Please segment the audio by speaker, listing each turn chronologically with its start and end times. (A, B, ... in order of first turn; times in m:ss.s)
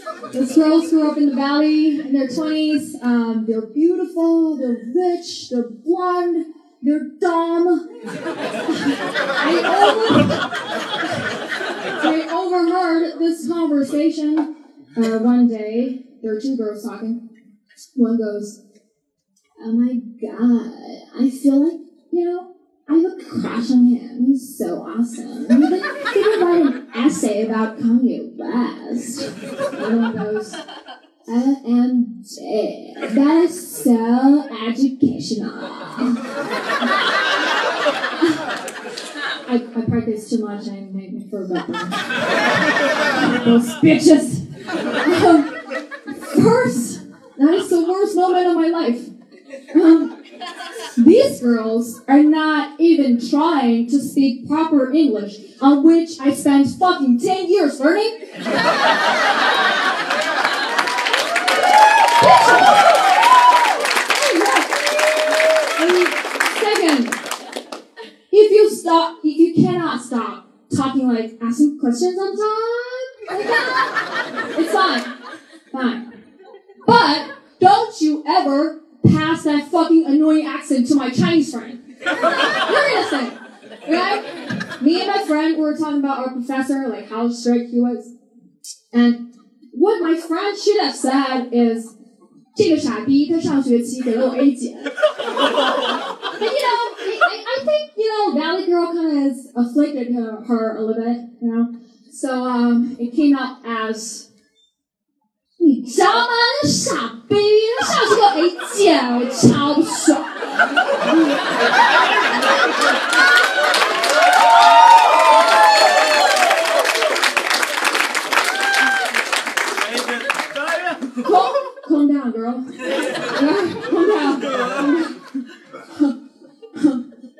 0:00.3-0:07.8 A
0:08.7-0:10.5 A
0:12.0-0:17.2 A
0:17.9-0:18.6 A
0:19.6-0:30.6 A
0:31.2-0:36.2 A
0:39.4-0:42.1 A
0:43.1-0:45.6 A
0:46.1-0:49.1 A
0:49.7-0:50.1 A
0:51.0-0:58.3 A
1:02.1-1:03.1 A
1:04.1-1:07.2 A
1:08.3-1:13.9 A
1:14.5-1:15.1 A
1:15.7-1:16.1 A
1:16.8-1:21.8 A
1:22.5-1:28.1 A
1:28.9-1:31.9 A
1:32.5-1:35.0 A
1:36.3-1:44.2 A
1:45.6-1:50.6 A
2:01.2-2:02.7 A
2:03.3-2:05.2 A
2:05.9-2:06.2 A
2:06.7-2:07.0 A